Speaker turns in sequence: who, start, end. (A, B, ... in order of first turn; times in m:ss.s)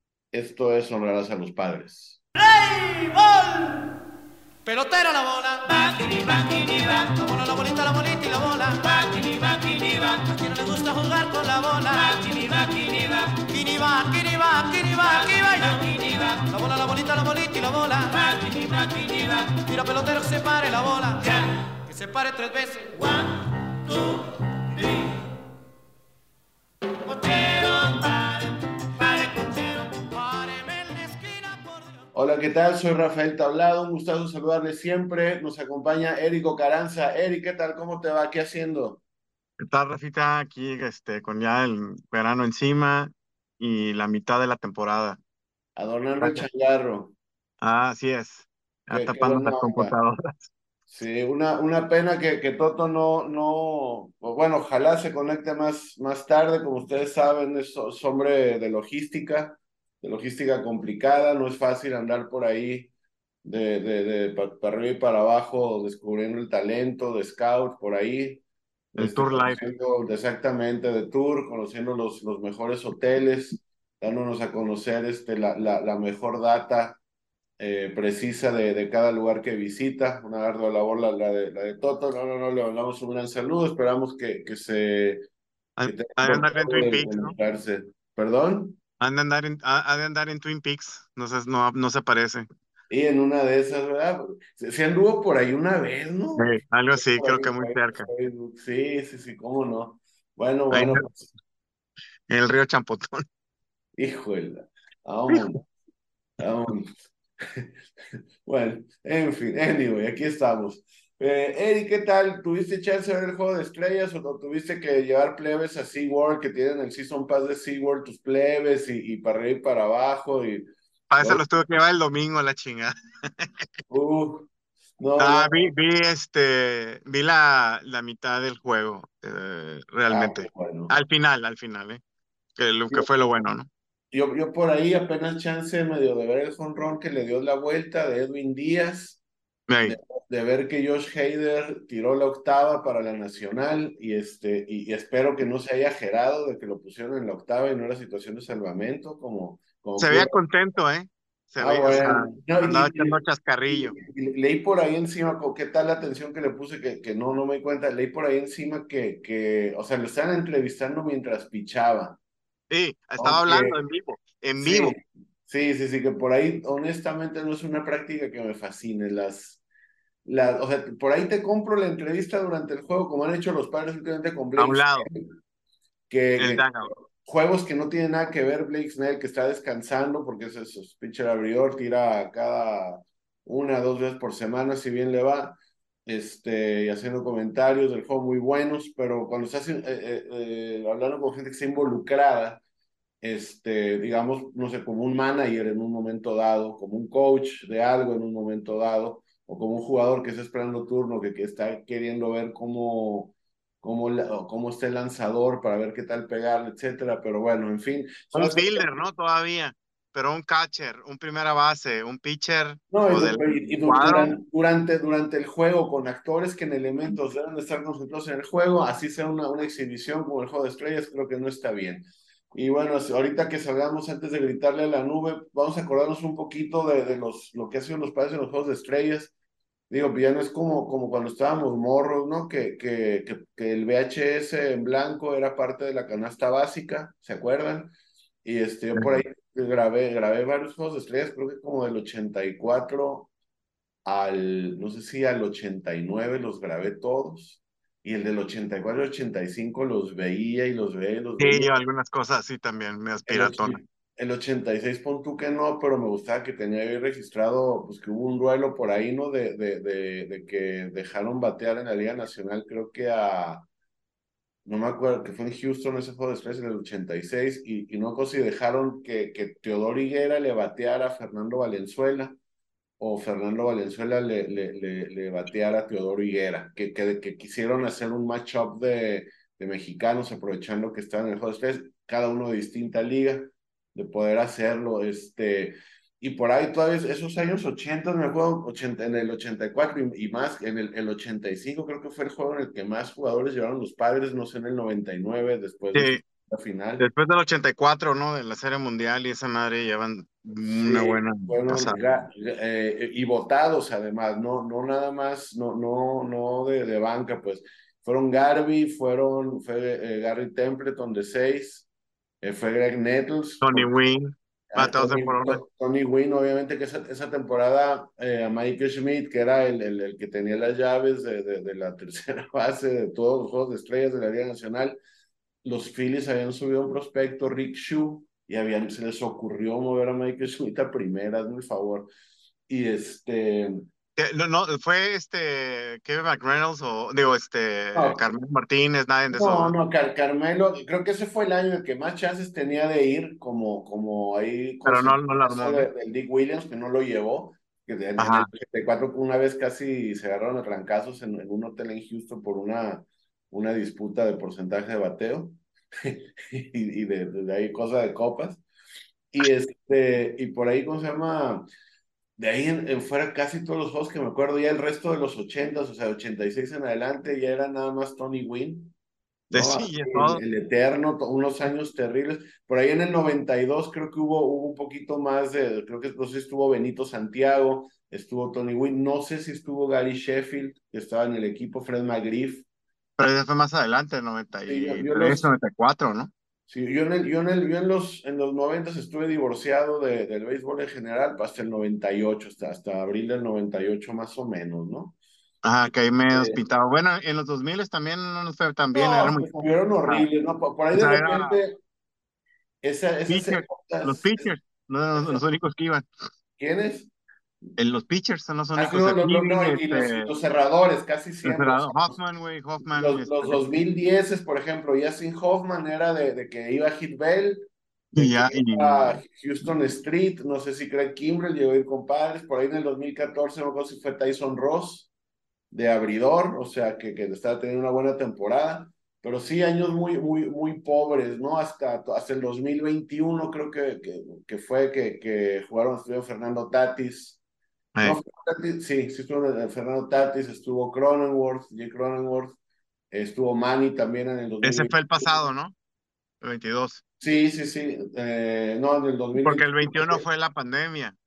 0:00.3-0:02.2 A
0:02.4-0:03.9 B
0:04.6-0:25.2 B
0:27.0-0:32.0 B
0:32.1-0:39.0 A
0:39.6-0:45.2 C
0:45.8-0:47.1 A
0:47.6-0:50.5 C
0:48.9-0:49.9 A
0:50.9-1:02.9 A
1:03.4-1:17.0 A
1:09.0-1:09.6 C
1:17.6-1:25.2 A
1:25.8-1:27.3 C
1:25.8-1:28.8 A
1:29.0-1:32.4 C
1:32.9-1:41.3 A
1:36.4-1:38.1 C
1:40.7-1:41.0 C
1:42.3-1:43.2 C
1:44.0-1:45.6 A
1:46.4-1:46.9 A
1:48.4-2:00.7 A
2:01.1-2:03.7 C
2:01.2-2:01.4 A
2:03.9-2:05.7 A
2:05.2-2:12.0 C
2:10.1-2:11.0 A
2:12.6-2:13.7 C
2:14.1-2:19.2 A
2:19.7-2:20.0 C
2:19.8-2:30.3 A
2:30.0-2:34.0 C
2:31.6-2:42.2 A
2:42.7-2:45.0 C
2:43.2-2:43.8 A
2:44.6-2:49.6 A
2:50.2-2:55.3 A
2:54.6-2:55.1 C
2:56.1-3:12.6 A
2:56.4-2:56.9 C
3:13.2-3:28.9 A
3:28.3-3:34.4 C
3:32.9-3:49.3 A
3:49.9-3:57.9 A
3:58.4-4:03.3 A
4:04.0-4:11.7 A
4:11.4-4:13.8 C
4:13.3-4:23.7 A
4:24.6-4:32.4 A
4:33.0-4:57.0 A
4:55.9-4:56.2 C
4:57.0-5:02.2 C
5:00.6-5:11.9 A
5:12.4-5:13.9 A
5:13.6-5:15.6 C
5:14.7-5:25.0 A
5:25.6-5:32.1 A
5:32.7-5:33.8 A
5:34.2-5:39.8 C
5:37.9-5:38.2 A
5:39.3-5:58.6 A
5:44.8-5:45.9 C
5:48.2-5:48.5 C
5:59.3-6:01.6 A
6:02.4-6:08.9 A
6:09.5-6:10.4 C
6:09.5-6:22.6 A
6:23.2-6:26.3 C
6:24.7-6:25.5 A
6:26.7-6:35.1 A
6:35.6-6:39.5 C
6:36.3-6:36.6 A
6:38.9-6:41.8 A
6:40.9-6:41.6 C
6:42.8-6:44.5 A
6:43.3-6:46.1 C
6:45.1-6:45.4 A
6:46.6-6:47.1 A
6:47.8-6:50.3 C
6:48.8-6:52.2 A
6:51.4-6:53.6 C
6:52.9-7:05.1 A
6:58.1-6:59.2 C
7:05.7-7:17.4 A
7:17.9-7:18.2 C
7:18.0-7:22.6 A
7:23.1-7:25.4 A
7:24.6-7:25.8 C
7:26.4-7:27.0 C
7:27.2-7:30.2 A
7:29.3-7:31.2 C